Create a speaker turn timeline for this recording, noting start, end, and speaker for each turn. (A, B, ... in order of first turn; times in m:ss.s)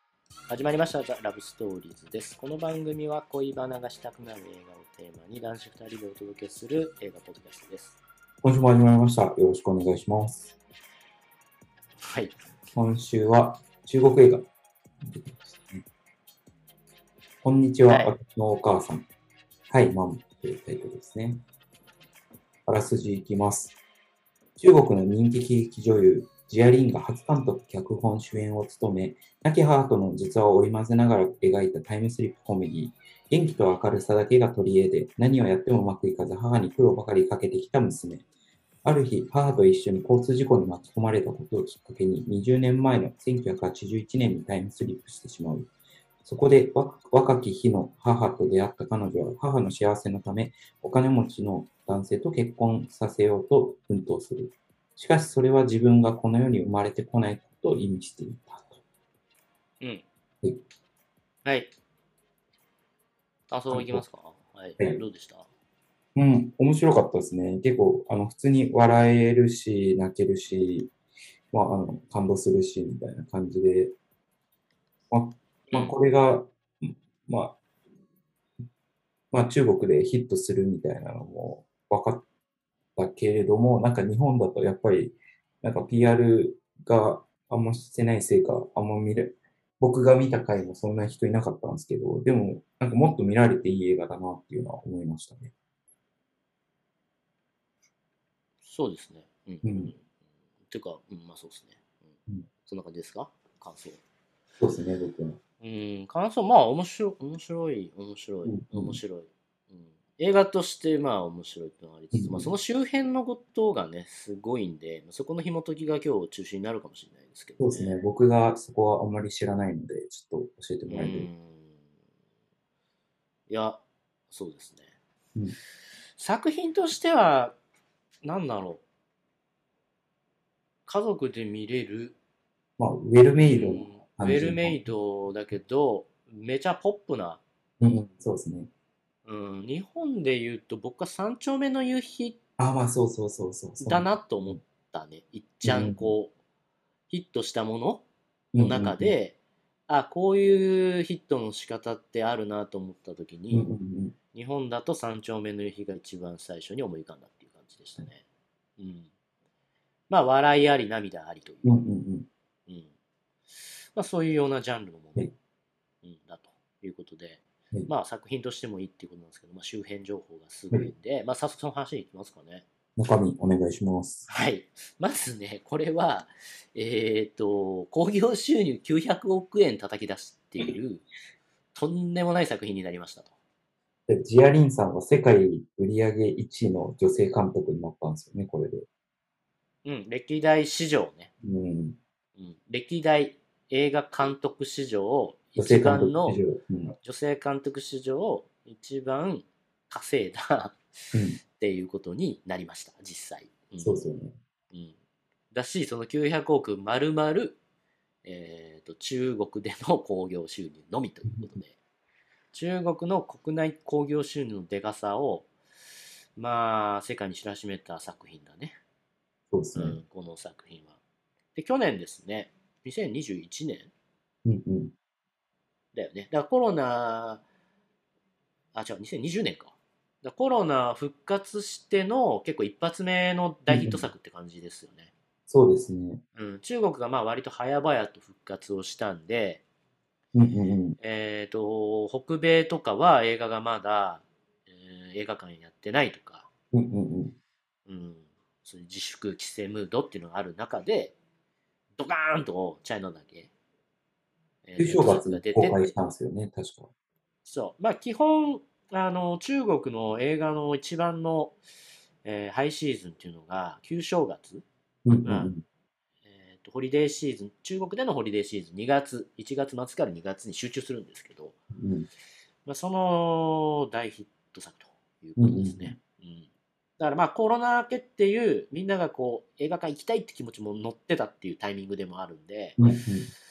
0:00.5-0:08.0 A
0:08.4-0:10.6 B
0:12.0-0:12.3 A
0:12.7-0:14.5 B
0:15.0-0:15.8 B
0:17.4-0:19.1 B
0:17.9-0:18.1 A
0:19.7-0:21.4 B
0:22.7-0:23.8 B
0:24.6-0:38.3 B
0:38.8-0:45.7 B
0:46.2-0:58.8 B
1:01.4-1:01.7 A
1:03.5-1:05.5 A
1:03.7-1:04.0 B
1:06.2-1:10.9 B
1:11.5-1:14.0 B
1:15.1-1:17.6 B
1:15.7-1:15.9 A
1:19.3-1:22.2 B
1:23.0-1:35.5 B
1:38.6-1:40.0 A
1:39.6-1:39.9 B
1:40.7-1:42.1 A
1:42.7-1:44.0 A
1:44.6-1:45.4 B
1:45.6-1:58.0 A
1:48.5-1:49.0 B
1:52.1-1:52.5 B
1:57.6-2:01.3 B
2:00.9-2:01.8 A
2:03.5-2:04.9 A
2:06.2-2:07.6 A
2:08.2-2:08.8 A
2:10.9-2:12.2 A
2:12.8-2:14.8 B
2:13.5-2:17.4 A
2:17.8-2:18.7 B
2:19.3-2:22.4 A
2:22.6-2:24.6 B
2:23.8-2:26.3 A
2:25.6-2:26.1 B
2:27.1-2:28.0 A
2:28.5-2:29.1 B
2:28.6-2:29.4 A
2:29.9-2:33.7 A
2:33.5-2:34.2 B
2:34.3-2:38.2 A
2:38.8-2:39.1 A
2:40.1-2:41.8 A
2:41.6-2:42.3 B
2:43.5-2:45.3 A
2:46.0-2:52.6 A
2:53.0-2:54.3 B
2:54.3-3:01.1 A
3:01.7-3:03.3 A
3:04.1-3:08.9 B
3:09.8-3:11.3 A
3:11.4-3:12.0 B
3:12.4-3:16.4 A
3:15.6-3:17.0 B
3:17.0-3:20.8 A
3:21.1-3:21.4 B
3:21.5-3:24.1 A
3:23.8-3:24.4 B
3:24.7-3:25.0 A
3:25.5-3:27.6 A
3:28.2-3:31.8 A
3:32.5-3:35.5 A
3:36.4-3:38.8 A
3:39.5-3:40.0 B
3:39.8-3:41.0 A
3:41.6-3:43.9 A
3:44.4-3:44.9 B
3:45.9-3:47.4 A
3:48.7-3:55.1 A
3:53.7-3:54.1 B
3:55.5-3:56.2 B
3:56.4-3:59.6 A
4:00.3-4:01.0 B
4:01.0-4:06.5 A
4:06.7-4:07.4 B
4:07.9-4:11.2 A
4:12.0-4:13.5 A
4:14.6-4:16.0 A
4:14.8-4:16.9 B
4:17.4-4:21.6 A
4:22.2-4:24.6 A
4:25.0-4:25.6 B
4:25.2-4:25.5 A
4:26.3-4:31.6 A
4:31.8-4:32.1 B
4:32.6-4:36.5 A
4:35.4-4:36.0 B
4:37.0-4:42.8 A
4:42.8-4:43.3 B